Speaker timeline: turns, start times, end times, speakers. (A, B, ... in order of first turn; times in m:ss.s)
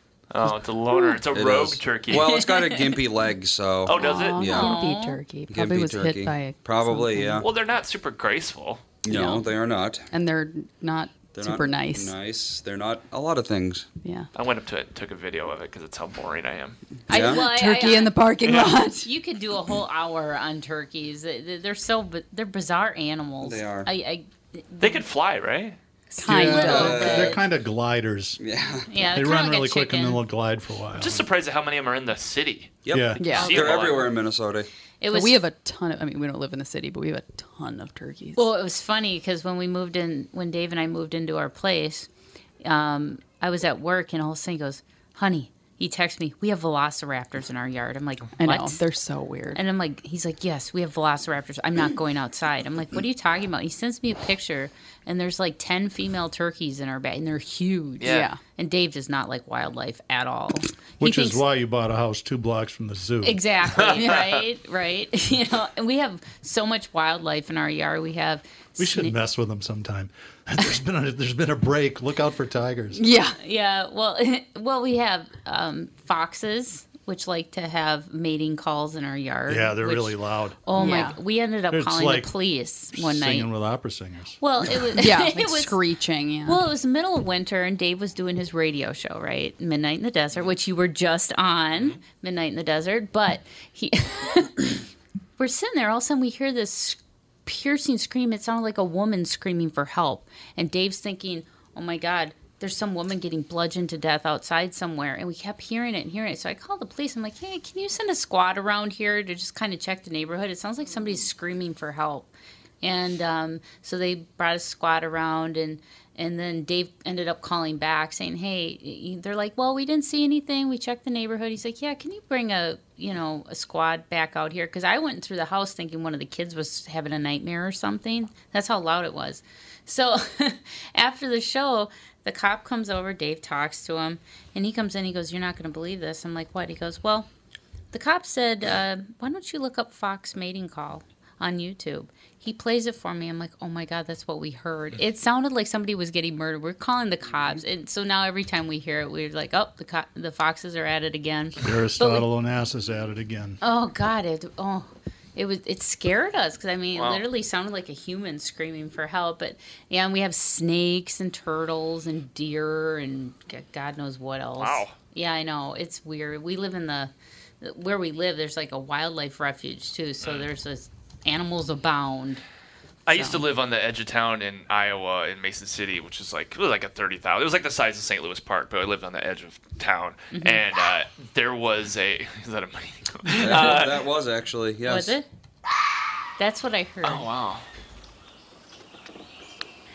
0:00.3-0:02.4 A
0:01.3-0:04.8 B
0:02.3-0:02.8 C
0:03.8-0:04.5 A
0:03.9-0:07.4 D
0:04.4-0:05.2 C
0:05.5-0:07.5 B
0:07.4-0:08.8 A
0:09.0-0:10.1 B
0:09.1-0:09.5 D
0:10.1-0:12.1 D
0:11.3-0:13.9 B
0:14.4-0:16.8 A
0:17.1-0:17.5 B
0:17.1-0:18.3 C
0:17.1-0:19.1 D
0:18.4-0:18.8 A
0:18.8-0:25.0 C
0:23.4-0:23.9 B
0:24.8-0:25.8 A
0:26.1-0:27.4 C
0:26.2-0:27.2 D
0:26.3-0:28.4 E
0:26.3-0:27.4 B
0:28.4-0:28.9 B
0:28.9-0:30.2 C
0:29.1-0:31.3 E
0:31.0-0:34.1 A
0:32.8-0:34.7 B
0:32.9-0:33.2 E
0:33.2-0:33.5 D
0:33.3-0:33.9 C
0:35.0-0:35.4 C
0:35.1-0:38.4 D
0:38.4-0:42.1 C
0:42.6-0:48.8 C
0:48.4-0:49.6 D
0:49.5-1:01.4 C
0:58.0-0:58.3 A
0:58.0-0:58.4 D
1:01.0-1:03.4 E
1:03.2-1:09.2 C
1:03.8-1:04.4 A
1:08.8-1:13.0 E
1:13.0-1:13.4 D
1:13.4-1:23.5 C
1:19.5-1:20.6 E
1:20.7-1:21.2 D
1:21.7-1:22.3 E
1:22.9-1:24.4 E
1:24.4-1:25.8 C
1:25.0-1:26.6 D
1:26.4-1:34.8 C
1:35.4-1:52.3 C
1:52.8-2:17.3 C
2:17.9-2:32.3 C
2:31.6-2:33.6 E
2:33.6-2:47.1 C
2:37.0-2:37.2 A
2:44.6-2:44.9 A
2:47.6-2:52.4 C
2:53.1-3:04.0 A
2:53.1-2:53.4 C
3:00.3-3:00.6 C
3:03.4-3:05.2 B
3:04.8-3:05.3 C
3:06.4-3:07.3 C
3:07.0-3:07.6 A